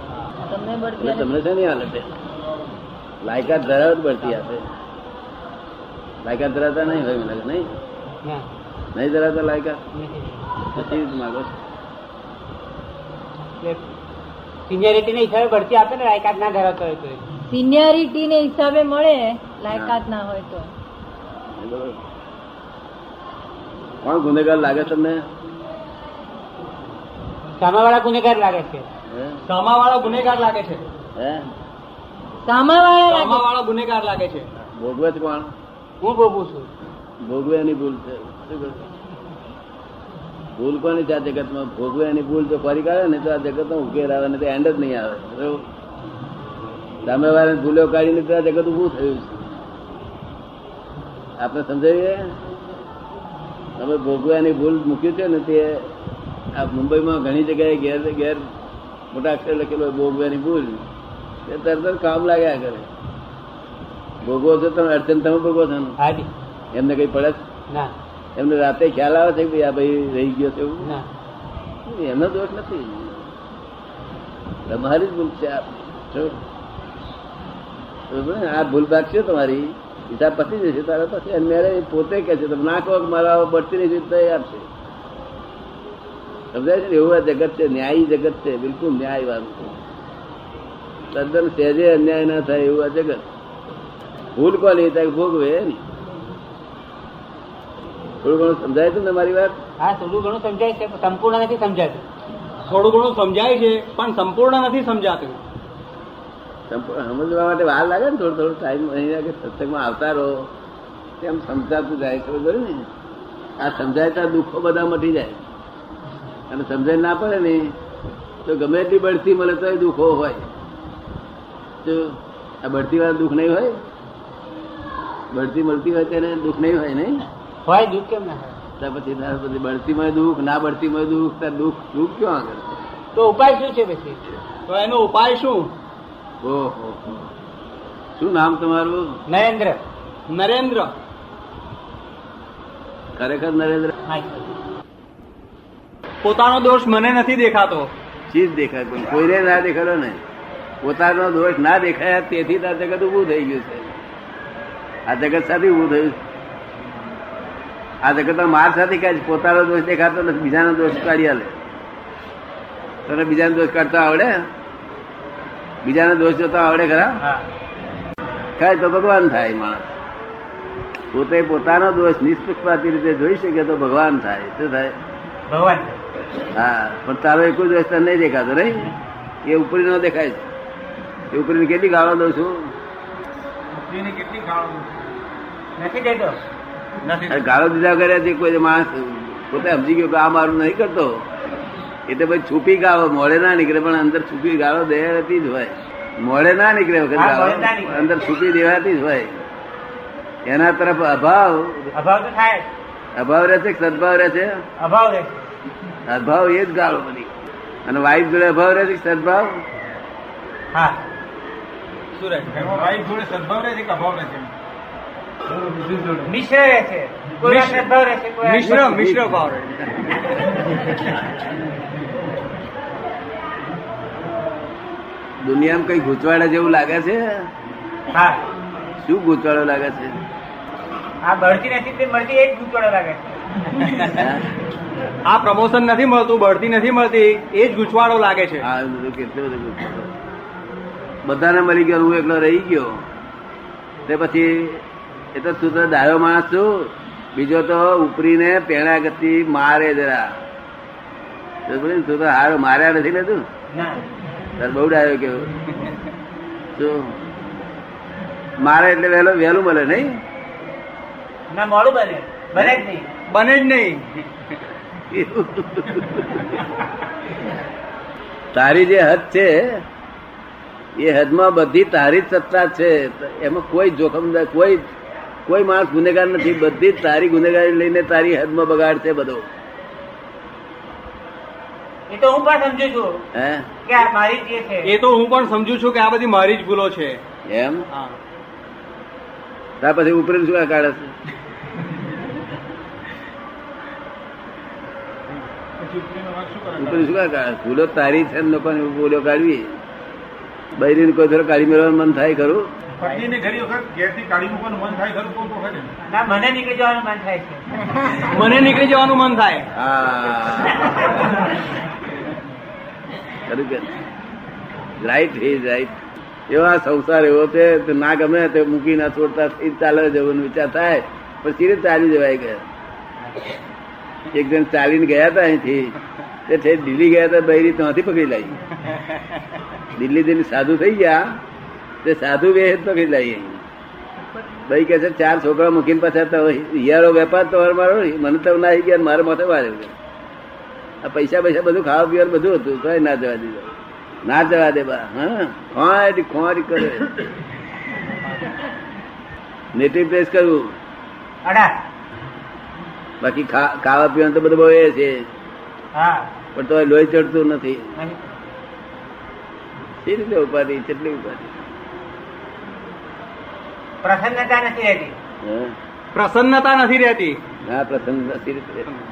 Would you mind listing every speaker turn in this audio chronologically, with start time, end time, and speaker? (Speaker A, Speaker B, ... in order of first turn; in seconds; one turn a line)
Speaker A: 0.5-1.3
Speaker B: 1.0-2.1
Speaker B: 3.2-4.7
Speaker B: 6.2-7.7
Speaker B: 8.9-9.8
Speaker C: 9.9-10.5
Speaker B: 10.7-11.5
Speaker C: 14.7-17.2
Speaker A: 17.5-20.7
Speaker B: 19.7-20.0
Speaker B: 21.6-22.0
Speaker B: 24.0-25.2
Speaker C: 27.6-28.9
Speaker B: 29.1-29.4
Speaker D: 29.4-30.8
Speaker B: 31.1-31.4
Speaker A: 32.4-33.4
Speaker D: 33.0-34.5
Speaker B: 34.7-35.5
Speaker C: 36.0-36.7
Speaker B: 37.2-38.8
Speaker B: 40.5-45.7
Speaker B: 47.0-49.5
Speaker B: 51.4-52.4
Speaker B: 53.8-55.9
Speaker B: 56.5-58.4
Speaker B: 59.1-60.9
Speaker B: 61.5-62.9
Speaker B: 64.2-66.0
Speaker C: 66.0-66.3
Speaker B: 66.7-67.4
Speaker B: 68.3-70.9
Speaker C: 70.8-71.1
Speaker B: 71.8-73.3
Speaker B: 74.7-76.4
Speaker B: 78.1-84.7
Speaker B: 86.5-89.8
Speaker B: 91.1-93.2
Speaker B: 94.3-95.8
Speaker B: 98.2-99.5
Speaker C: 99.8-102.0
Speaker D: 102.6-105.4
Speaker B: 106.7-110.5
Speaker B: 111.2-112.9
Speaker B: 113.6-115.4
Speaker B: 116.5-117.7
Speaker B: 118.4-120.5
Speaker B: 121.8-123.8
Speaker B: 125.3-127.2
Speaker C: 127.7-128.6
Speaker B: 128.8-132.8
Speaker C: 133.1-134.2
Speaker D: 134.7-135.7
Speaker B: 136.4-137.2
Speaker B: 138.2-139.2
Speaker C: 139.3-139.8
Speaker D: 140.3-140.9
Speaker B: 143.2-143.9
Speaker C: 144.1-144.5
Speaker D: 146.2-147.9
Speaker B: 148.3-150.2
Speaker B: 150.8-153.9
Speaker B: 155.1-156.2
Speaker B: 158.0-161.7
Speaker B: 163.1-164.5
Speaker B: 165.8-167.2
Speaker C: 167.2-167.5
Speaker B: 168.6-169.9
Speaker B: 171.1-175.0
Speaker C: 175.5-175.9
Speaker B: 176.5-178.9
Speaker B: 179.4-180.4
Speaker B: 181.3-182.7
Speaker E: 183.7-184.9
Speaker C: 185.8-186.4
Speaker D: 187.0-187.4
Speaker B: 187.3-191.2
Speaker B: 192.1-199.4
Speaker C: 197.2-198.1
Speaker B: 200.4-201.9
Speaker C: 201.9-202.7
Speaker B: 203.1-204.6
Speaker C: 204.8-205.4
Speaker B: 206.1-209.6
Speaker C: 210.7-211.0
Speaker D: 212.2-212.7
Speaker E: 212.5-214.5
Speaker E: 215.7-216.2
Speaker C: 216.2-218.9
Speaker D: 217.4-217.9
Speaker D: 218.4-220.5
Speaker B: 218.6-219.3
Speaker B: 225.4-227.5
Speaker C: 228.1-228.4
Speaker B: 229.0-230.2
Speaker C: 231.2-233.4
Speaker D: 233.8-234.2
Speaker B: 234.1-234.4
Speaker D: 235.2-238.6
Speaker B: 238.6-240.1
Speaker B: 241.2-243.0
Speaker B: 244.1-250.4
Speaker B: 251.7-253.4
Speaker C: 253.7-254.0
Speaker B: 254.6-255.5
Speaker B: 256.7-257.1
Speaker B: 258.6-260.2
Speaker C: 261.5-263.1
Speaker D: 263.3-264.6
Speaker B: 265.1-266.6
Speaker B: 268.5-269.8
Speaker B: 271.0-274.9
Speaker B: 275.4-279.5
Speaker C: 282.1-283.2
Speaker B: 283.3-283.7
Speaker C: 283.8-284.9
Speaker D: 284.8-287.2
Speaker B: 287.4-287.9
Speaker D: 287.9-288.2
Speaker B: 289.8-291.1
Speaker E: 295.8-297.0
Speaker B: 296.8-299.8
Speaker B: 300.8-302.7
Speaker E: 303.0-305.9
Speaker C: 306.1-307.8
Speaker D: 308.2-309.7
Speaker B: 309.7-311.3
Speaker B: 313.5-313.9
Speaker B: 315.0-316.0
Speaker B: 316.5-322.6
Speaker B: 324.3-325.9
Speaker B: 326.5-328.6
Speaker D: 328.8-329.4
Speaker B: 329.9-331.4
Speaker B: 332.0-333.6
Speaker B: 334.6-339.9
Speaker B: 341.0-343.7
Speaker B: 344.2-347.2
Speaker B: 349.7-350.7
Speaker C: 351.4-351.7
Speaker B: 353.2-355.2
Speaker C: 355.9-356.3
Speaker B: 356.5-357.9
Speaker C: 357.9-358.2
Speaker B: 360.0-361.6
Speaker C: 364.0-365.1
Speaker B: 365.4-365.7
Speaker D: 366.1-367.4
Speaker B: 367.6-368.9